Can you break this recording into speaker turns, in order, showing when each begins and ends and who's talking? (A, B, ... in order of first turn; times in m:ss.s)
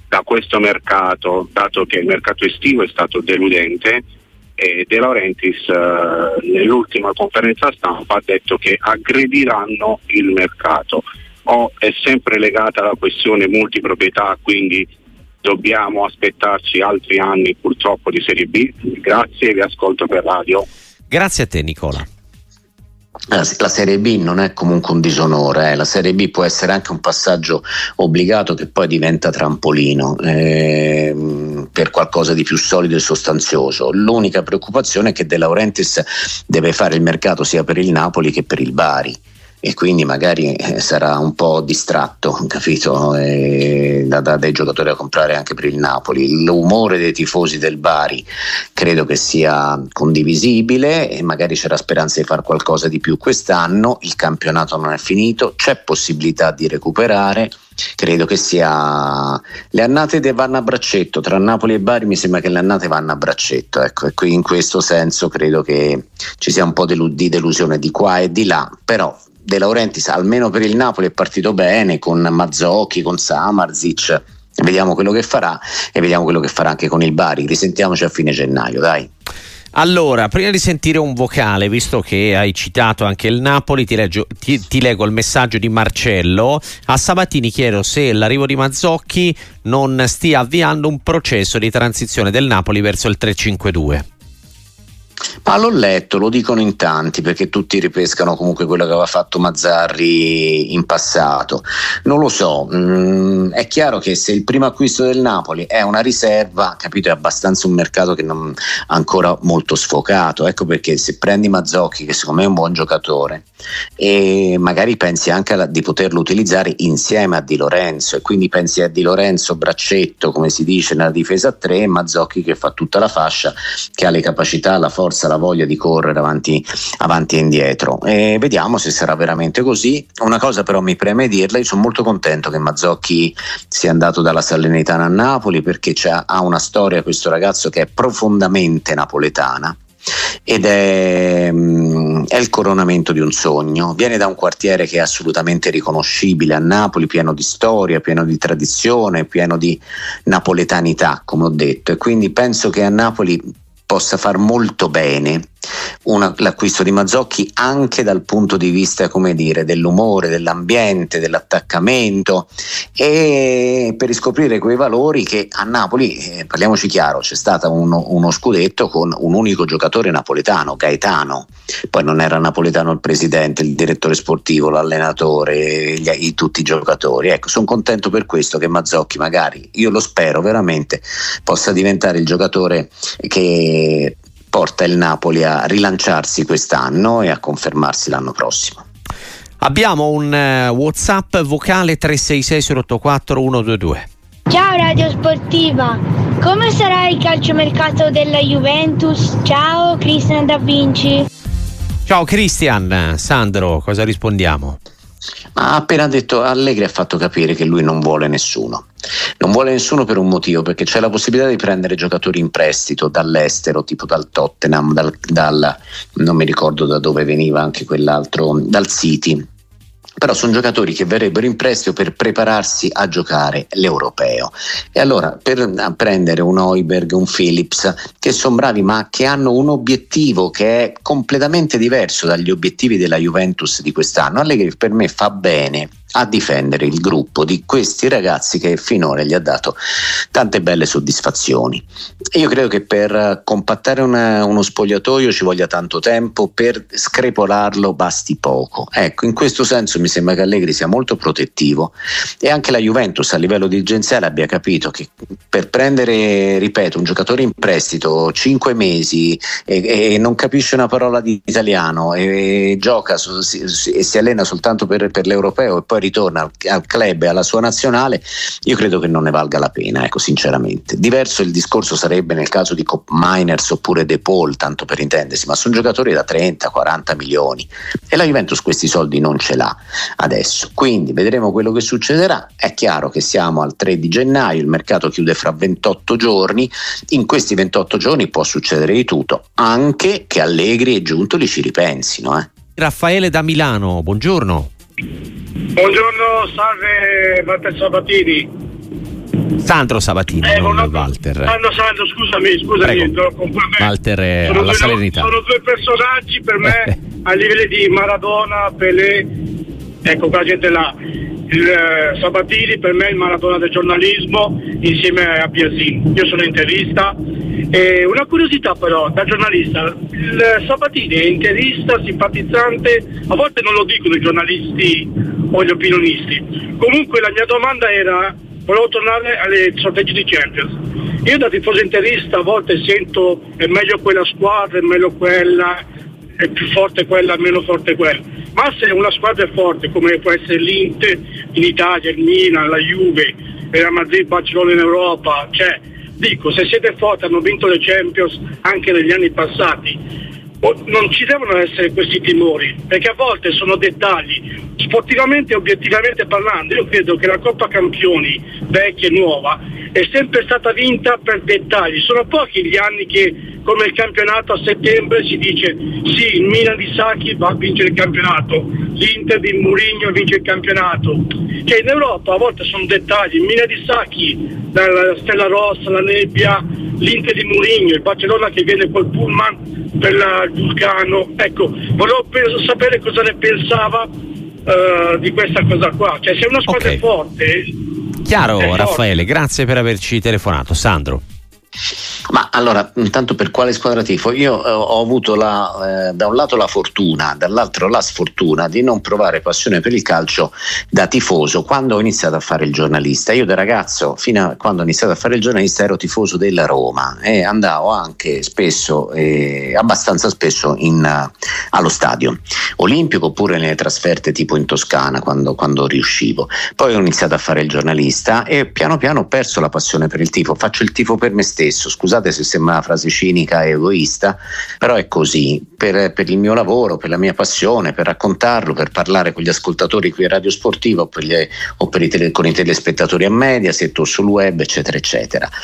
0:00.1-0:04.0 A
0:04.6-0:14.9 A
0:15.4-0:20.7 A
0:21.1-0:22.1 B
0:23.3-1:19.1 C
1:19.7-1:34.1 B
1:35.4-1:53.5 C
1:54.0-2:19.8 C
2:20.5-2:35.5 C
2:36.0-3:08.8 C
3:09.6-3:14.1 B
3:14.5-3:21.3 D
3:22.1-3:24.8 B
3:25.6-3:28.9 C
3:29.4-3:39.5 C
3:40.2-3:59.8 C
4:00.3-4:52.5 C
4:52.8-4:54.7 B
4:55.8-4:58.5 E
4:59.6-5:01.6 B
5:00.4-5:03.9 E
5:02.8-5:03.1 B
5:03.8-5:05.3 B
5:04.4-5:09.3 E
5:10.0-5:11.0 E
5:11.5-5:17.2 E
5:17.7-5:35.8 E
5:36.4-5:50.0 E
5:50.6-6:24.1 E
6:24.7-6:27.8 E
6:26.7-6:27.0 B
6:28.2-6:31.2 B
6:28.6-6:29.0 E
6:32.3-7:15.5 C